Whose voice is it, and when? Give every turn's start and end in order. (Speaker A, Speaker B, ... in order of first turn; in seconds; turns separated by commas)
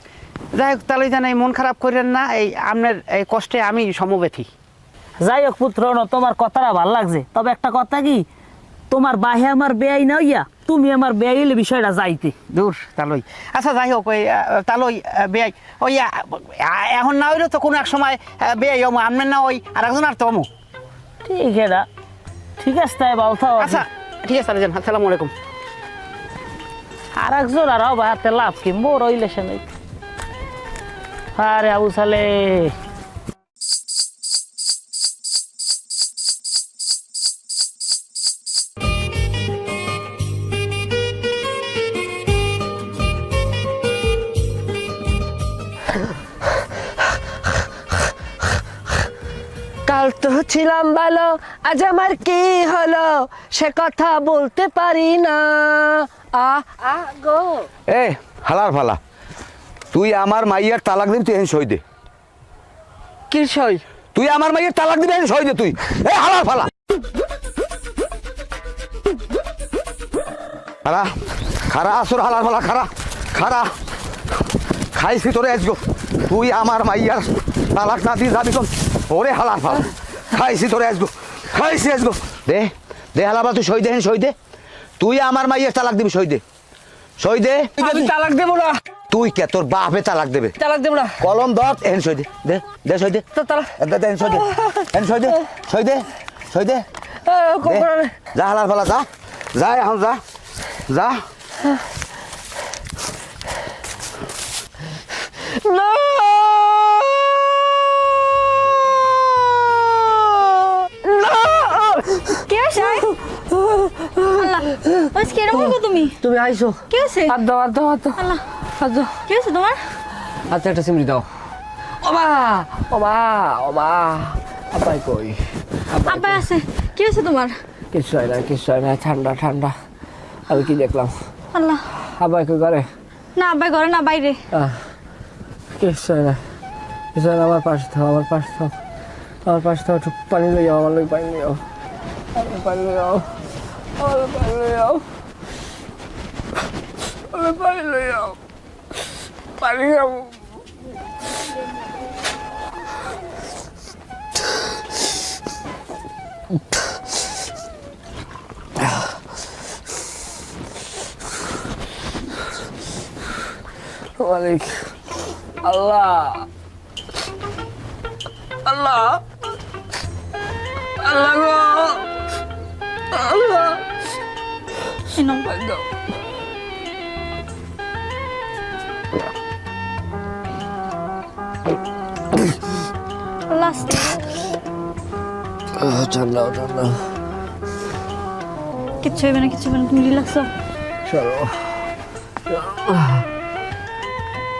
Speaker A: 0.5-4.5, Speaker B: 5.2-8.2, Speaker B: 8.9-12.3, Speaker A: 12.5-20.5, Speaker B: 21.2-21.9, Speaker B: 22.6-23.8, Speaker A: 23.6-25.3, Speaker B: 27.2-29.6, Speaker B: 31.4-32.7, Speaker C: 49.9-57.7, Speaker D: 57.9-59.0, Speaker D: 59.9-61.8, Speaker C: 63.3-63.8, Speaker D: 64.1-66.7, Speaker D: 70.8-71.1, Speaker D: 71.6-73.7, Speaker D: 74.9-84.3, Speaker D: 85.0-86.4, Speaker D: 87.2-88.1, Speaker C: 87.8-88.8, Speaker D: 89.1-90.5, Speaker C: 90.6-91.2, Speaker D: 91.2-93.2, Speaker C: 93.3-93.7, Speaker D: 93.8-96.8, Speaker C: 94.4-94.9, Speaker C: 97.2-98.1, Speaker D: 97.6-100.2, Speaker D: 100.9-101.2, Speaker C: 105.6-119.2, Speaker E: 112.5-113.1, Speaker E: 114.4-116.2, Speaker E: 116.9-117.3, Speaker E: 119.3-119.8, Speaker C: 120.5-121.2, Speaker C: 122.0-125.4, Speaker C: 125.9-126.5, Speaker E: 126.0-127.5, Speaker C: 127.9-129.7, Speaker C: 130.5-131.1, Speaker E: 131.5-131.8, Speaker C: 132.2-132.8, Speaker E: 133.3-134.4, Speaker C: 134.5-134.8, Speaker C: 135.8-136.4, Speaker C: 137.1-138.7, Speaker C: 139.4-141.6, Speaker C: 142.3-143.2, Speaker C: 144.0-145.0, Speaker C: 147.3-148.4, Speaker C: 149.6-150.4, Speaker C: 164.2-164.9, Speaker C: 165.6-166.5, Speaker C: 168.7-169.2, Speaker C: 171.0-172.1, Speaker C: 173.1-173.8, Speaker E: 175.2-175.6, Speaker C: 175.5-175.8, Speaker E: 183.5-184.2, Speaker C: 185.8-187.0, Speaker E: 189.0-190.5, Speaker C: 191.1-191.5, Speaker C: 192.5-193.2